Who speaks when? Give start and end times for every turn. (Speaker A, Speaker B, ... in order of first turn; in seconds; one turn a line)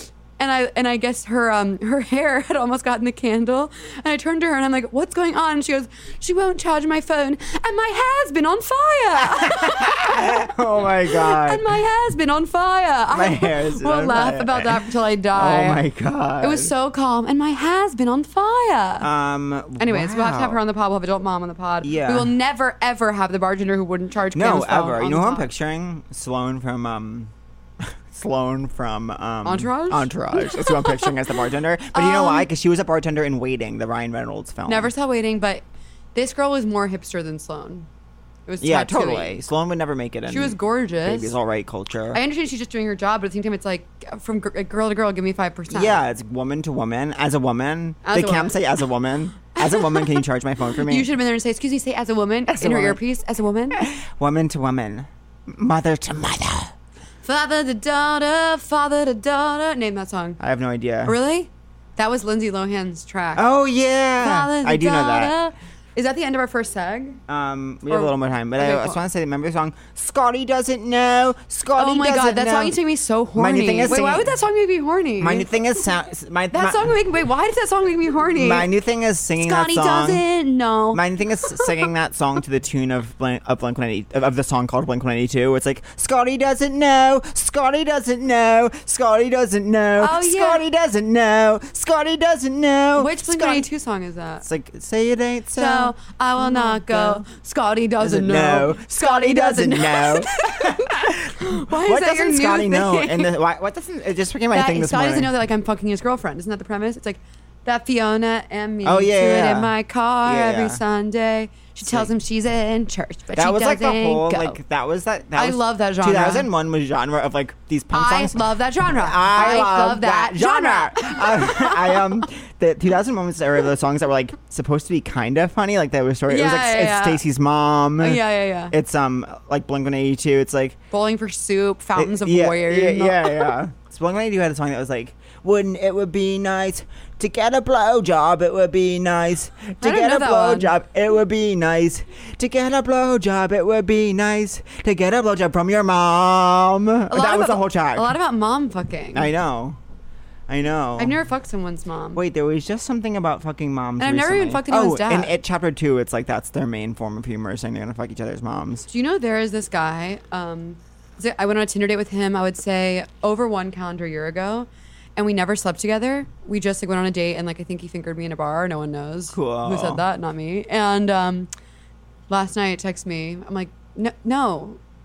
Speaker A: 0.4-10.3
Speaker B: 9.4-11.7
Speaker A: 11.1-15.8
Speaker B: 13.1-16.7
Speaker A: 16.4-19.1
Speaker B: 19.0-20.6
Speaker A: 19.8-25.5
Speaker B: 21.8-22.3
Speaker B: 24.3-34.9
Speaker A: 29.4-31.1
Speaker A: 31.9-32.5
Speaker A: 34.7-35.6
Speaker A: 36.1-37.9
Speaker A: 38.5-39.4
Speaker B: 38.6-42.2
Speaker A: 40.3-41.4
Speaker A: 42.1-46.0
Speaker B: 45.7-51.1
Speaker A: 48.0-48.6
Speaker A: 49.6-50.2
Speaker A: 50.8-53.8
Speaker B: 52.5-53.0
Speaker B: 53.7-56.7
Speaker A: 57.2-60.4
Speaker B: 60.4-61.2
Speaker A: 61.1-63.5
Speaker B: 63.4-65.3
Speaker A: 64.2-67.2
Speaker B: 67.3-72.8
Speaker A: 67.9-69.0
Speaker A: 71.8-75.5
Speaker B: 73.3-74.3
Speaker B: 75.2-76.9
Speaker A: 76.5-78.7
Speaker B: 78.4-80.2
Speaker A: 79.4-81.7
Speaker B: 80.9-93.7
Speaker A: 90.0-90.6
Speaker A: 93.0-94.5
Speaker B: 94.4-97.2
Speaker A: 95.5-103.3
Speaker B: 98.0-105.3
Speaker A: 104.5-114.6
Speaker B: 108.8-110.8
Speaker B: 111.8-112.1
Speaker B: 113.4-130.8
Speaker A: 115.3-116.5
Speaker A: 117.9-122.0
Speaker A: 126.3-127.2
Speaker A: 128.0-128.7
Speaker A: 130.9-133.6
Speaker B: 132.0-148.2
Speaker A: 139.8-140.8
Speaker A: 147.1-149.3
Speaker B: 149.1-149.8
Speaker B: 150.5-151.2
Speaker A: 151.0-152.2
Speaker B: 152.2-158.9
Speaker A: 154.0-155.3
Speaker A: 158.9-171.5
Speaker B: 169.3-170.0
Speaker A: 172.3-174.8